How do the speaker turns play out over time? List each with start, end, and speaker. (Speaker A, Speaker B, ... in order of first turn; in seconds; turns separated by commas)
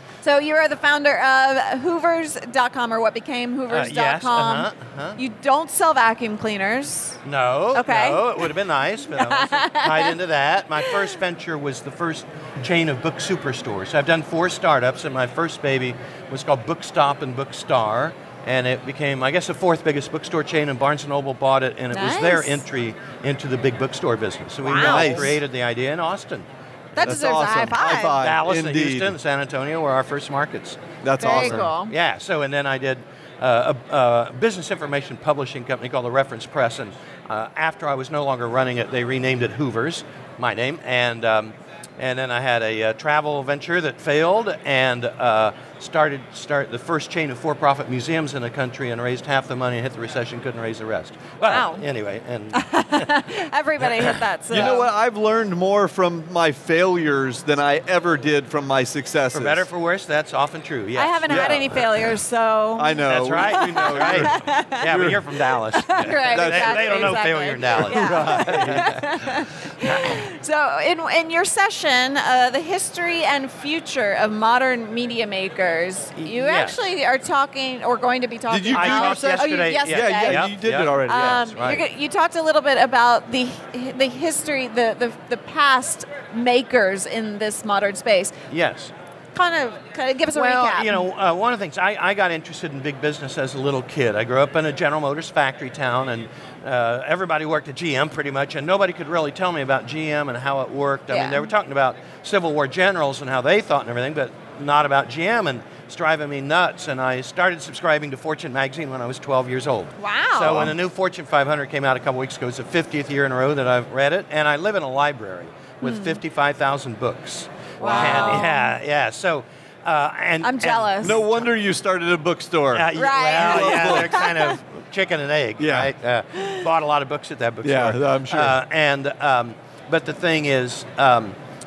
Speaker A: 0.2-7.2, Speaker B: 3.7-5.2, Speaker B: 7.2-27.2, Speaker A: 7.7-8.6, Speaker A: 9.1-10.1, Speaker A: 10.8-11.1, Speaker A: 21.9-22.6, Speaker A: 24.6-25.3, Speaker C: 24.7-25.4, Speaker A: 27.0-28.2, Speaker C: 27.0-29.1, Speaker B: 28.1-53.2, Speaker C: 31.0-31.7, Speaker A: 31.2-31.9, Speaker A: 51.5-51.9, Speaker A: 52.5-54.9, Speaker B: 53.8-54.8, Speaker C: 54.5-59.6, Speaker B: 59.3-62.1, Speaker A: 60.9-64.8, Speaker C: 61.3-61.8, Speaker C: 62.8-65.2, Speaker B: 63.0-69.0, Speaker A: 65.7-80.4, Speaker C: 66.0-67.2, Speaker C: 67.7-68.9, Speaker B: 69.8-70.2, Speaker B: 76.2-76.8, Speaker C: 78.5-81.5, Speaker B: 78.7-80.9, Speaker A: 81.0-88.3, Speaker B: 81.5-81.8, Speaker B: 88.5-88.9, Speaker A: 89.3-91.1, Speaker B: 90.3-121.5, Speaker A: 101.1-101.5, Speaker A: 110.0-110.6, Speaker A: 115.8-116.2, Speaker A: 117.8-118.7, Speaker C: 117.8-118.5, Speaker A: 120.4-121.2, Speaker C: 121.0-124.1, Speaker B: 122.7-131.4, Speaker A: 122.9-124.6, Speaker C: 125.6-125.9, Speaker A: 126.3-126.7, Speaker C: 127.6-128.6